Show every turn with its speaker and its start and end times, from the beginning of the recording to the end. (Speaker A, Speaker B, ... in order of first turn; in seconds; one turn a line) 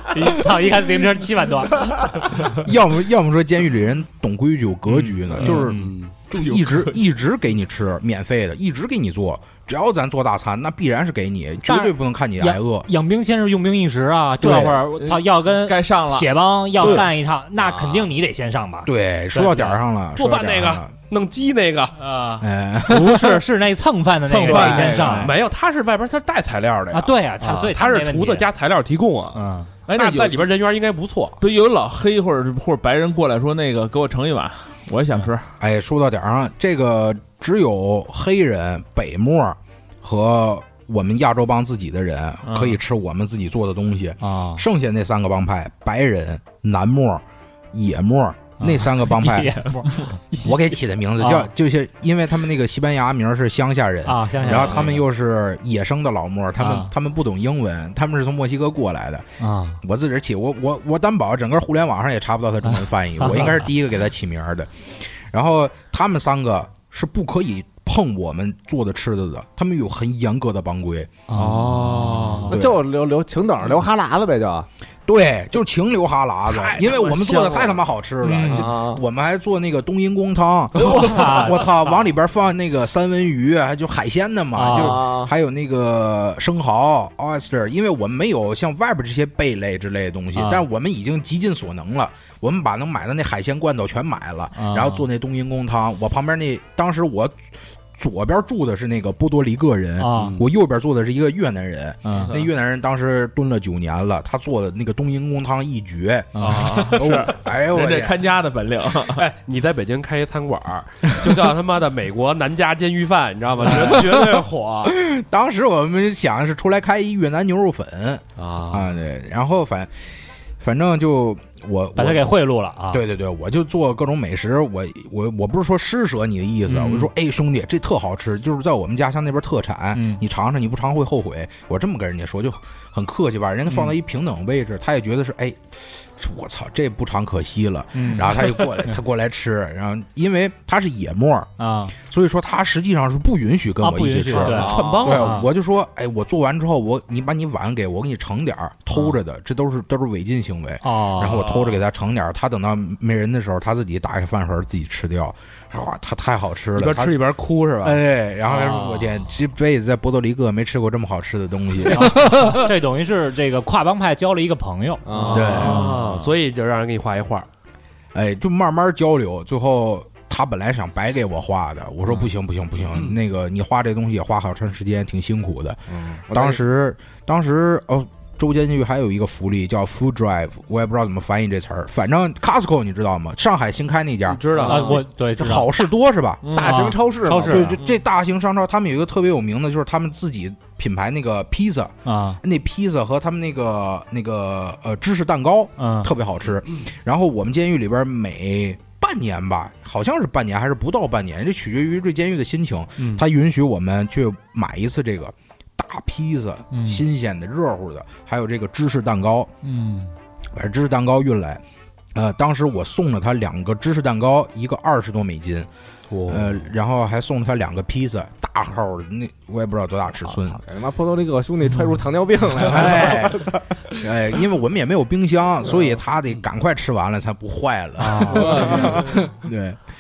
Speaker A: 0.1-2.5
Speaker B: 2.4-12.9
Speaker A: 5.4-6.0
Speaker C: 5.8-6.1
Speaker D: 6.3-7.0
Speaker A: 11.7-19.8
Speaker B: 14.4-14.8
Speaker D: 14.6-17.1
Speaker B: 18.9-20.9
Speaker C: 20.2-22.0
Speaker D: 22.0-22.4
Speaker B: 22.4-23.4
Speaker A: 22.9-25.4
Speaker C: 24.3-31.4
Speaker D: 24.4-25.2
Speaker B: 24.8-25.3
Speaker A: 26.9-28.5
Speaker A: 29.4-29.7
Speaker D: 29.9-30.5
Speaker D: 31.4-35.5
Speaker B: 35.6-49.7
Speaker D: 42.5-42.8
Speaker A: 44.2-44.6
Speaker A: 48.6-50.2
Speaker B: 50.4-71.1
Speaker A: 51.2-51.5
Speaker A: 54.0-55.0
Speaker A: 56.6-56.9
Speaker A: 59.4-59.8
Speaker A: 63.2-63.7
Speaker A: 71.3-72.5
Speaker D: 71.3-72.5
Speaker E: 72.5-74.7
Speaker B: 72.5-72.8
Speaker B: 75.1-108.2
Speaker C: 76.5-77.8
Speaker A: 78.2-78.7
Speaker E: 78.5-79.0
Speaker A: 80.8-81.9
Speaker A: 84.6-85.0
Speaker E: 84.6-85.3
Speaker A: 90.3-90.7
Speaker A: 94.6-95.0
Speaker A: 100.0-100.4
Speaker C: 100.1-100.4
Speaker A: 102.0-102.4
Speaker D: 102.2-102.5
Speaker A: 106.3-106.9
Speaker D: 106.4-109.2
Speaker C: 109.1-115.0
Speaker B: 113.7-120.1
Speaker C: 118.4-118.9
Speaker B: 120.6-122.3
Speaker A: 122.0-123.0
Speaker B: 122.9-157.2
Speaker A: 126.7-127.1
Speaker A: 129.9-130.2
Speaker A: 133.7-134.0
Speaker A: 137.9-139.0
Speaker A: 141.6-142.0
Speaker A: 143.8-145.5
Speaker C: 144.3-145.4
Speaker A: 150.8-151.7
Speaker C: 156.8-158.0
Speaker B: 157.8-162.7
Speaker A: 158.4-159.3
Speaker A: 161.8-165.9
Speaker E: 165.1-165.6
Speaker C: 165.2-167.5
Speaker D: 165.2-166.0
Speaker B: 165.3-166.0
Speaker B: 168.1-186.8
Speaker E: 175.9-176.6
Speaker C: 184.3-185.0
Speaker A: 184.6-185.7
Speaker D: 186.4-186.9
Speaker E: 186.5-187.8
Speaker A: 186.6-187.8
Speaker B: 187.4-209.5
Speaker A: 192.1-192.4
Speaker A: 195.8-196.1
Speaker A: 203.0-203.2
Speaker A: 206.7-207.0
Speaker A: 209.6-210.1
Speaker B: 210.5-211.6
Speaker B: 212.2-215.7
Speaker E: 216.1-216.6
Speaker B: 216.3-220.6
Speaker E: 220.3-223.7
Speaker B: 222.6-229.8
Speaker A: 228.0-229.1
Speaker D: 228.4-229.1